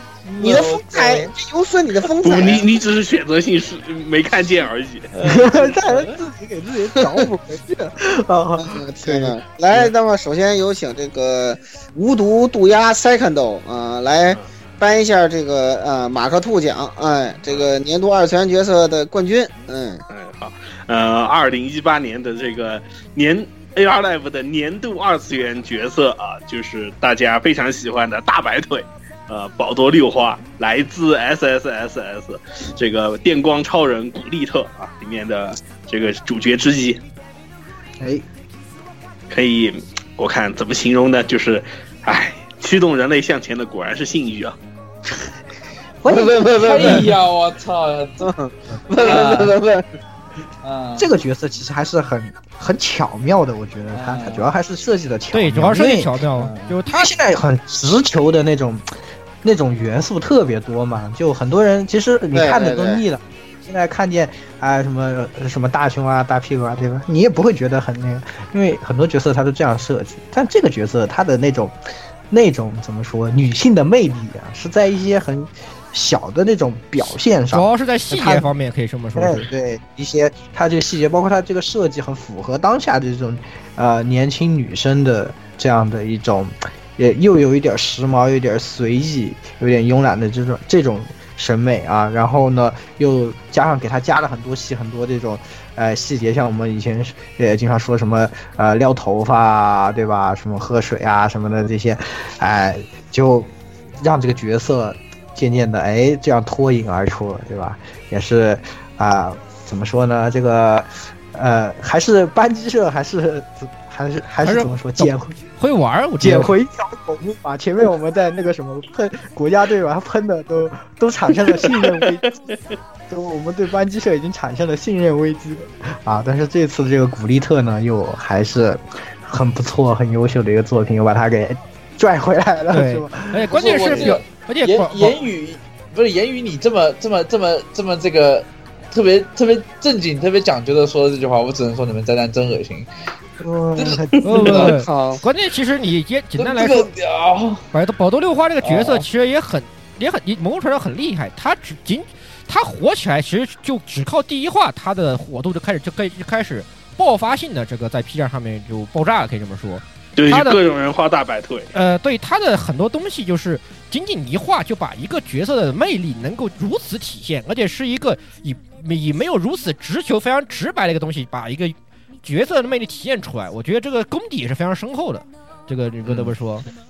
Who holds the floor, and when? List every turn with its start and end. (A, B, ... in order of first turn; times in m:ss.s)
0:00.2-0:01.3 A
0:00.4-0:02.7 B
0:02.2-0:05.1 C
0:05.2-0:09.9 D
0:05.2-0:06.2 A
0:08.6-0:20.0 B
0:20.1-0:37.0 C
0:38.0-0:38.2 D
0:39.3-0:44.6 C
0:46.0-0:47.0 D
0:46.1-0:47.1 B
0:46.6-0:48.3 A
0:48.2-0:49.8 B
0:49.0-0:49.5 A
0:50.6-0:51.1 A
0:51.0-0:56.1 D
0:53.9-0:54.5 A
0:55.3-0:57.1 E
0:56.4-0:56.8 A
0:56.9-0:58.8 D
0:59.4-1:11.8 D
1:02.3-1:03.0 B
1:12.3-1:18.5 D
1:17.5-1:19.5 E
1:19.2-1:55.4 D
1:54.4-1:56.5 E
1:56.2-2:02.3 D
2:03.1-2:14.2 D
2:12.7-2:15.2 E
2:13.5-2:22.9 A
2:23.4-2:24.7 D
2:23.8-2:24.7 A
2:24.2-2:26.9 E
2:24.6-2:25.2 B
2:26.4-2:27.6 A
2:27.7-2:40.6 E
2:28.6-2:29.0 A
2:40.2-2:41.7 C
2:41.7-2:56.6 E